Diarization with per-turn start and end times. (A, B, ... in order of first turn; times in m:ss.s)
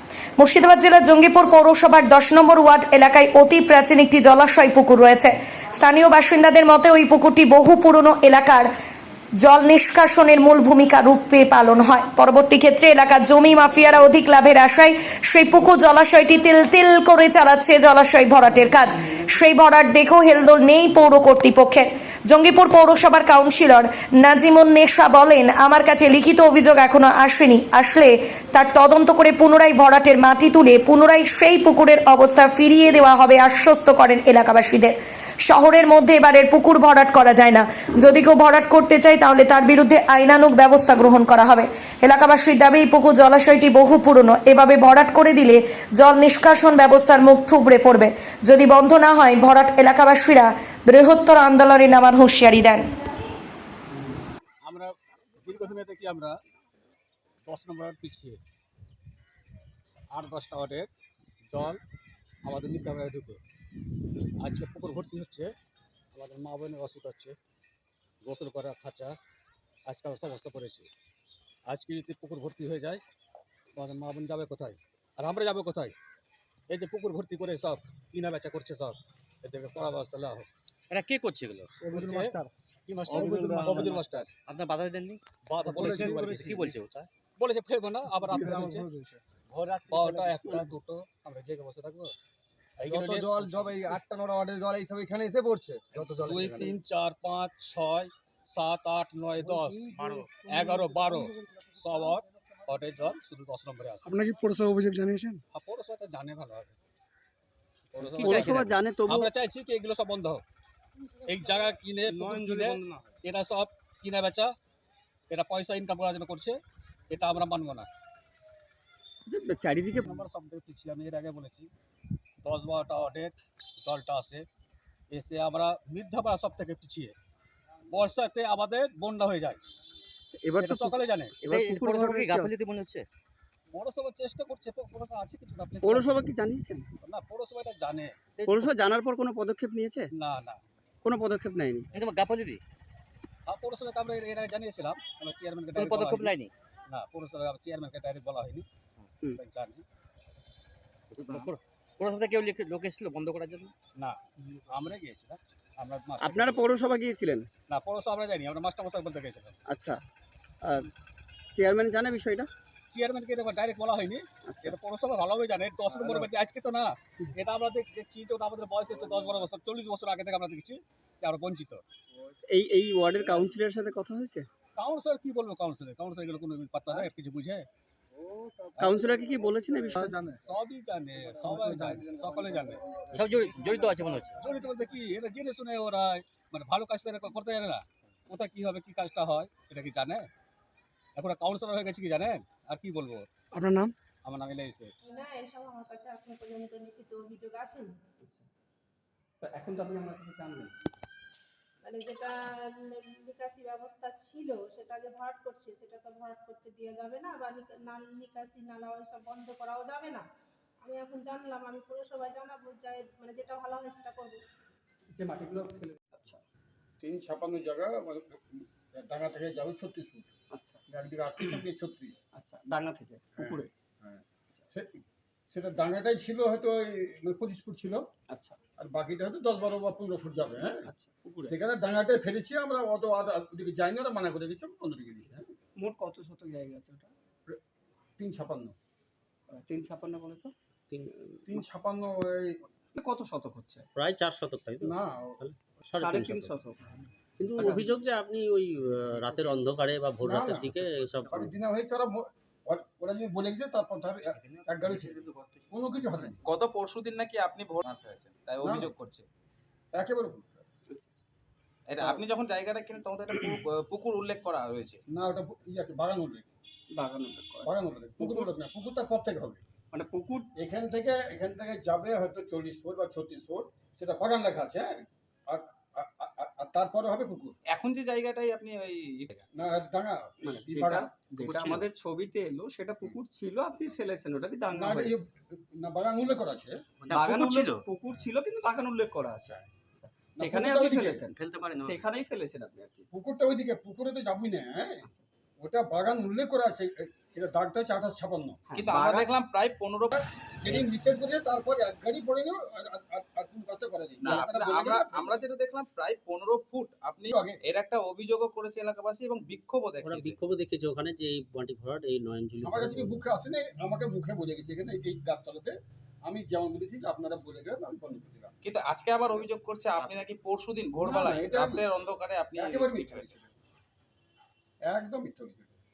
0:00.4-0:08.7 A
0:09.4-0:52.9 A
0:54.6-0:56.4 B
0:57.4-0:58.4 B
1:00.1-1:00.9 B
1:01.5-1:01.8 B
1:02.4-1:03.4 B
1:04.4-1:05.5 B
1:06.2-1:07.4 B
1:08.2-1:09.2 B
1:09.9-1:10.9 B
1:11.7-1:13.0 B
1:13.8-1:16.0 B
1:16.7-1:20.5 B
1:20.9-1:21.7 C
1:21.9-1:24.3 B
1:23.1-1:27.1 C
1:23.3-1:23.8 D
1:25.5-1:26.8 B
1:27.4-1:28.9 B
1:28.4-1:29.2 D
1:29.5-1:32.1 B
1:32.8-1:34.0 B
1:32.9-1:36.8 D
1:36.0-1:44.2 B
1:40.0-1:40.4 C
1:45.5-1:46.8 B
1:47.9-1:50.4 B
1:48.0-1:49.3 E
1:51.2-1:54.5 B
1:55.3-1:56.6 B
1:57.1-1:57.9 B
1:59.3-2:00.2 E
2:00.0-2:01.7 B
2:02.4-2:04.5 B
2:05.1-2:07.2 B
2:07.9-2:09.6 B
2:10.4-2:12.6 E
2:10.6-2:11.4 B
2:11.5-2:13.1 C
2:13.7-2:16.1 B
2:15.8-2:16.8 E
2:17.0-2:18.2 B
2:18.4-2:18.7 C
2:18.5-2:20.1 E
2:20.2-2:20.6 B
2:21.0-2:21.9 E
2:21.9-2:22.6 C
2:23.5-2:26.4 B
2:25.7-2:26.5 C
2:26.9-2:28.7 B
2:29.3-2:29.8 B
2:31.1-2:33.7 C
2:34.7-2:36.6 B
2:36.2-2:37.5 E
2:37.7-2:39.6 B
2:39.7-2:40.0 E
2:40.6-2:40.9 E
2:41.5-2:42.5 E
2:42.9-2:51.8 B
2:44.5-2:44.8 E
2:46.0-2:46.3 E
2:52.5-2:54.5 E
2:54.8-2:57.7 B
2:58.8-2:59.0 B
2:58.8-3:00.2 E
3:00.4-3:02.8 B
3:01.5-3:02.0 F
3:02.6-3:03.0 F
3:03.1-3:04.4 C
3:04.4-3:10.3 B
3:11.2-3:13.3 B
3:14.2-3:14.9 B
3:15.0-3:17.9 G
3:19.4-3:20.8 E
3:21.8-3:30.2 G
3:30.8-3:34.4 G
3:35.1-3:36.4 E
3:37.0-3:40.3 H
3:40.5-3:40.8 E
3:40.9-3:42.2 H
3:42.4-3:43.7 E
3:43.4-3:48.0 H
3:48.3-3:48.6 E
3:48.8-3:50.9 H
3:50.8-3:51.6 E
3:51.4-3:55.5 H
3:55.3-3:57.1 E
3:58.2-3:58.8 H
3:59.5-4:00.5 E
4:01.5-4:02.6 H
4:03.0-4:03.9 E
4:04.0-4:06.5 F
4:04.8-4:05.4 H
4:05.9-4:07.0 E
4:07.4-4:11.5 F
4:07.6-4:07.9 E
4:10.2-4:16.4 H
4:14.4-4:15.7 C
4:16.4-4:19.2 I
4:18.6-4:18.9 H
4:19.9-4:20.6 H
4:20.9-4:21.2 E
4:21.9-4:25.0 I
4:25.1-4:26.5 H
4:27.0-4:28.5 E
4:27.6-4:29.6 H
4:29.9-4:30.5 E
4:30.6-4:37.6 H
4:37.7-4:39.5 I
4:39.6-4:41.1 H
4:40.4-4:45.2 E
4:44.7-4:46.8 H
4:47.1-4:53.1 E
4:47.1-4:47.8 C
4:50.4-4:51.3 H
4:51.3-4:52.1 C
4:53.1-4:55.1 H
4:55.0-4:55.3 E
4:55.6-4:58.6 H
4:58.7-4:59.3 E
4:58.8-5:00.3 I
5:00.6-5:05.4 H
5:04.2-5:10.4 I
5:07.3-5:07.6 H
5:10.0-5:13.2 F
5:12.6-5:18.6 H
5:18.6-5:23.3 I
5:21.0-5:21.9 H
5:22.6-5:23.5 H
5:24.9-5:25.8 H